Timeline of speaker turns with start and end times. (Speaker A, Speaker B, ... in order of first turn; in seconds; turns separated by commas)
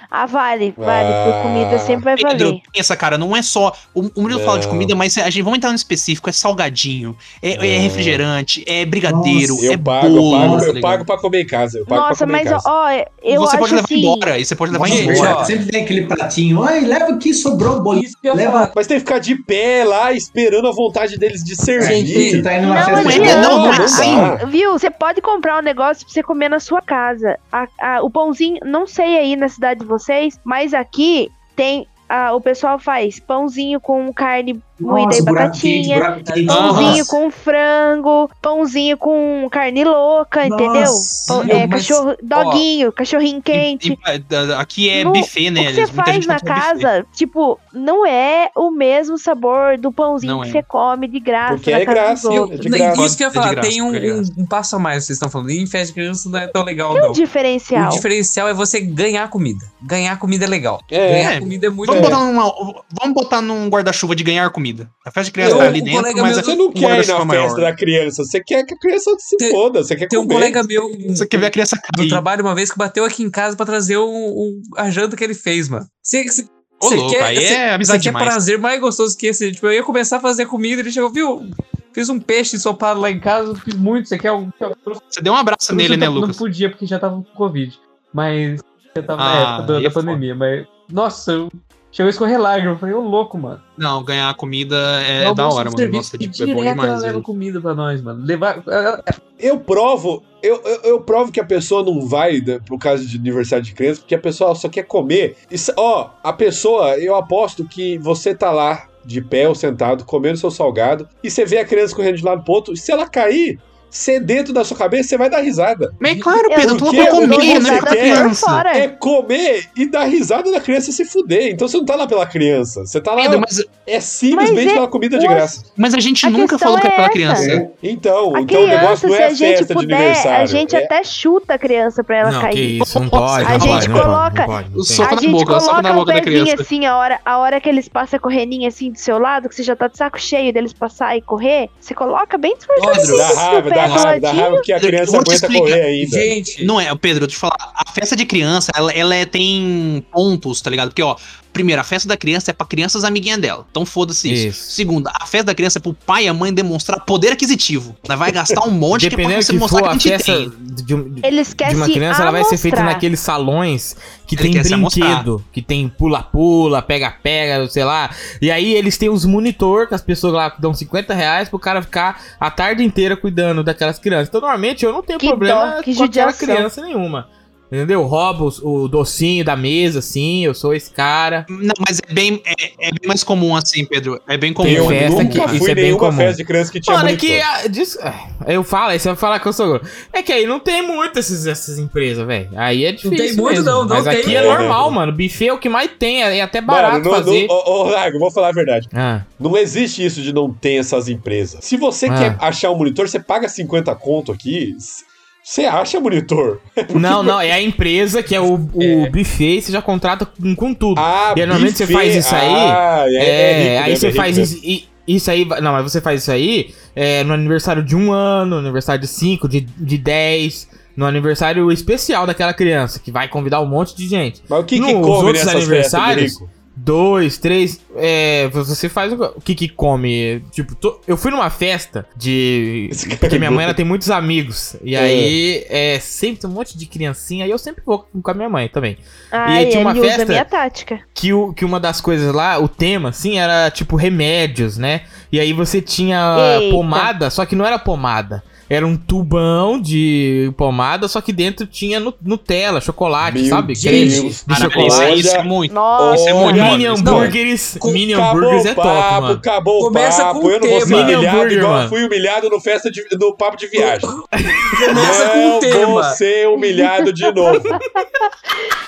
Speaker A: 0.1-2.6, Speaker B: 0.8-2.0, Speaker C: 2.2-11.1, Speaker B: 4.3-5.0, Speaker B: 7.5-8.2, Speaker D: 9.1-9.6, Speaker B: 9.6-12.7, Speaker D: 10.3-10.7, Speaker A: 11.9-14.3, Speaker C: 13.3-15.6, Speaker D: 14.7-18.7, Speaker E: 14.8-15.6, Speaker E: 17.9-18.7, Speaker B: 18.8-22.5, Speaker D: 21.8-23.9, Speaker E: 21.8-23.7, Speaker A: 22.6-44.0, Speaker C: 22.9-24.3, Speaker B: 23.1-24.4, Speaker D: 34.8-37.2, Speaker E: 36.2-37.0, Speaker C: 36.5-37.0, Speaker D: 40.4-41.6, Speaker E: 41.2-42.7, Speaker C: 43.5-46.9, Speaker A: 44.9-52.6, Speaker C: 50.2-50.6, Speaker B: 51.5-53.1, Speaker E: 52.3-57.2, Speaker C: 52.9-54.3, Speaker A: 56.9-58.0, Speaker E: 57.7-62.2, Speaker B: 60.9-62.2, Speaker C: 61.2-67.7, Speaker E: 65.4-66.6, Speaker B: 65.4-70.6, Speaker E: 69.4-85.0, Speaker C: 71.2-72.2, Speaker C: 76.8-78.4, Speaker C: 85.1-86.4, Speaker E: 85.7-93.6, Speaker C: 89.2-90.2, Speaker C: 93.8-97.3, Speaker E: 95.2-99.2, Speaker B: 99.4-116.0, Speaker C: 116.0-118.6, Speaker A: 116.5-118.9, Speaker B: 116.6-125.6, Speaker C: 123.2-123.7, Speaker A: 124.3-125.6, Speaker C: 125.8-127.6, Speaker A: 126.2-127.5, Speaker D: 127.3-127.7, Speaker B: 127.7-130.9, Speaker A: 128.3-144.7, Speaker C: 128.6-129.0, Speaker F: 132.2-135.1, Speaker C: 132.8-134.1, Speaker C: 134.7-136.7, Speaker E: 142.8-143.5, Speaker B: 143.1-146.3, Speaker C: 143.8-144.1, Speaker C: 144.8-145.8, Speaker E: 146.0-146.7, Speaker C: 146.6-160.5, Speaker F: 154.2-154.8, Speaker F: 158.9-181.5, Speaker A: 161.2-163.0, Speaker C: 164.4-165.3, Speaker A: 175.2-176.7, Speaker C: 181.5-185.6, Speaker F: 184.6-197.5, Speaker B: 184.6-187.5, Speaker E: 193.0-194.7, Speaker B: 194.2-195.0, Speaker B: 196.7-207.4, Speaker F: 198.9-199.3, Speaker F: 202.1-202.4, Speaker F: 206.9-240.5, Speaker E: 208.8-209.1, Speaker B: 211.0-214.5, Speaker B: 224.5-226.5, Speaker B: 232.9-233.8, Speaker B: 234.9-235.4, Speaker A: 239.3-241.0, Speaker F: 241.2-255.3, Speaker A: 246.3-247.1, Speaker B: 253.2-264.1, Speaker E: 253.8-254.3, Speaker C: 254.5-257.4, Speaker A: 255.7-256.5, Speaker F: 256.1-259.4, Speaker E: 257.1-257.3, Speaker E: 259.8-261.2, Speaker F: 260.9-262.0, Speaker E: 263.8-264.2, Speaker F: 264.4-264.8, Speaker E: 264.7-266.2, Speaker B: 264.9-267.8, Speaker A: 266.6-268.3